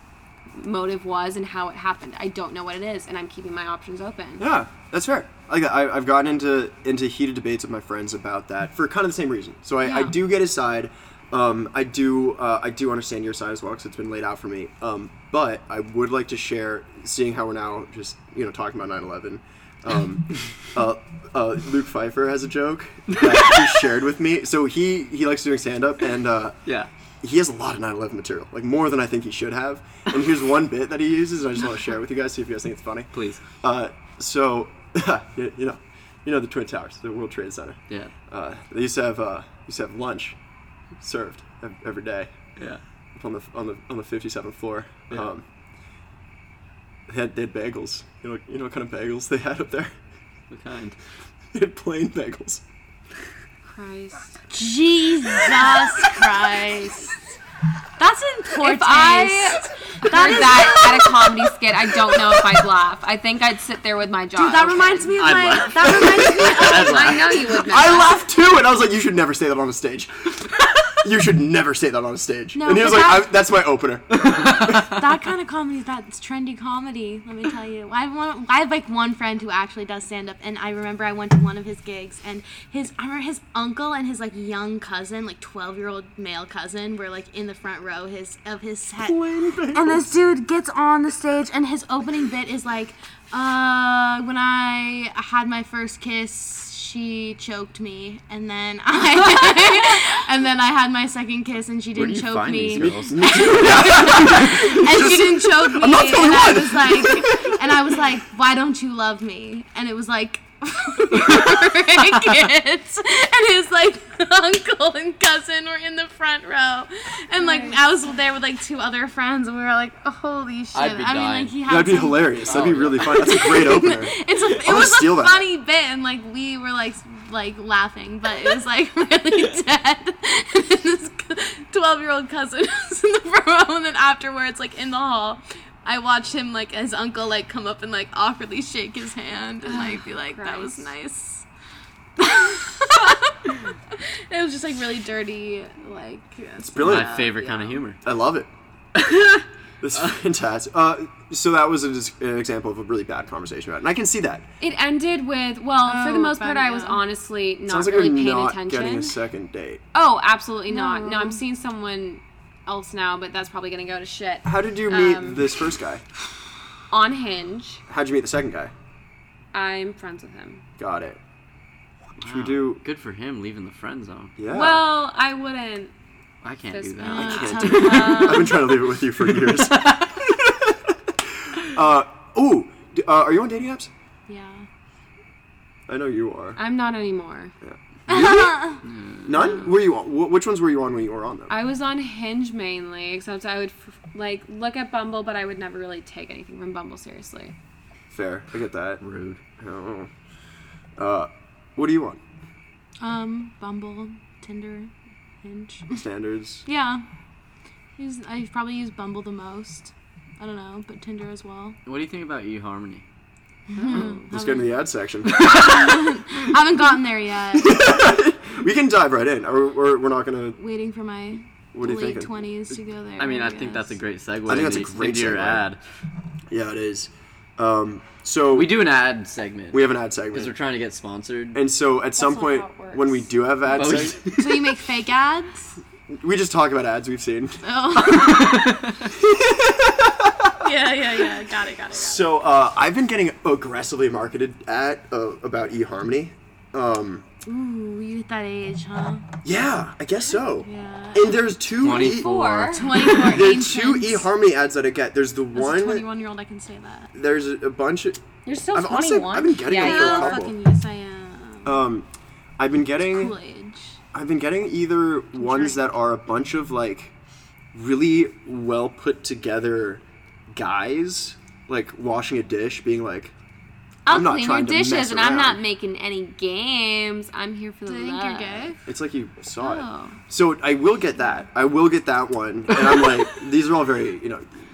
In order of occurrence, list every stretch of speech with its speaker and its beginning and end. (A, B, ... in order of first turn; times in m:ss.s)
0:00.5-0:04.4 A
0:04.4-0:26.6 B
0:27.2-0:33.1 B
0:33.1-0:33.4 C
0:33.6-0:40.4 B
0:41.0-0:42.3 B
0:43.1-0:45.4 B
0:47.1-0:49.9 B
0:50.5-0:51.0 C
0:51.5-0:52.6 B
0:53.6-0:54.4 A
0:54.5-0:57.2 D
0:58.0-1:01.4 D
0:58.6-1:05.2 A
1:04.4-1:07.4 D
1:05.2-1:07.4 C
1:05.8-1:06.6 B
1:06.5-1:08.2 A
1:07.4-1:10.5 B
1:11.0-1:14.8 B
1:12.5-1:13.3 D
1:14.2-1:14.9 C
1:14.7-1:29.2 D
1:29.0-1:30.1 B
1:29.7-2:21.4 D
1:41.9-1:43.3 C
1:42.8-1:47.7 B
1:57.4-1:57.8 A
2:00.7-2:01.5 C
2:01.6-2:05.4 B
2:02.4-2:03.2 C
2:19.6-2:20.9 A
2:22.2-2:27.8 D
2:26.6-2:27.2 B
2:26.8-2:28.0 C
2:28.0-2:28.5 B
2:29.0-2:29.4 C
2:29.8-2:34.5 B
2:34.6-2:39.2 A
2:35.8-2:37.0 D
2:37.7-2:39.8 B
2:39.9-2:45.5 A
2:40.7-2:41.4 D
2:44.4-2:46.0 B
2:46.9-2:47.8 A
2:47.9-2:48.7 B
2:49.5-2:50.6 A
2:50.8-2:51.2 B
2:52.2-2:52.8 B
2:52.2-2:54.3 C
2:54.4-2:54.9 B
2:54.5-2:55.9 A
2:56.4-2:58.2 C
2:56.7-2:58.7 A
2:57.0-2:58.5 D
2:57.2-3:03.9 B
2:59.4-3:00.1 C
3:04.3-3:04.6 D
3:05.9-3:06.6 B
3:06.6-3:07.5 A
3:07.6-3:11.5 B
3:08.1-3:08.8 D
3:08.8-3:09.4 C
3:09.4-3:09.7 A
3:11.5-3:17.5 A
3:18.1-3:19.0 B
3:19.0-3:19.4 C
3:19.6-3:20.1 B
3:21.0-3:22.2 B
3:23.0-3:24.9 D
3:25.4-3:26.0 D
3:25.9-3:26.6 B
3:26.6-3:27.0 D
3:28.0-3:31.8 D
3:31.8-3:33.0 C
3:33.7-3:34.7 D
3:33.7-3:34.2 A
3:34.3-3:35.7 B
3:35.2-3:37.9 D
3:37.5-3:40.6 B
3:40.6-3:44.0 D
3:41.7-3:42.3 B
3:43.2-3:45.8 C
3:44.4-3:45.6 B
3:46.5-3:48.8 B
3:48.5-3:51.6 C
3:49.7-3:50.5 B
3:51.5-3:54.2 B
3:52.2-3:53.3 A
3:53.7-3:54.7 C
3:54.3-3:55.8 D
3:56.1-3:58.6 B
3:57.6-3:58.7 D
3:58.2-3:59.1 C
3:59.1-4:00.6 B
4:00.6-4:02.2 D
4:01.9-4:07.2 B
4:07.4-4:09.3 D
4:09.4-4:16.1 B
4:10.6-4:11.4 D
4:11.8-4:12.8 C
4:11.9-4:12.9 A
4:12.7-4:14.3 D
4:15.5-4:17.1 D
4:17.1-4:20.5 B
4:18.4-4:20.4 A
4:19.6-4:21.8 D
4:21.6-4:22.1 B
4:22.6-4:23.3 B
4:23.0-4:24.0 D
4:24.1-4:27.1 B
4:25.4-4:25.8 D
4:27.7-4:33.3 B
4:34.0-4:38.7 A
4:34.1-4:35.6 B
4:37.8-4:38.8 D
4:38.8-4:44.5 B
4:39.6-4:40.2 A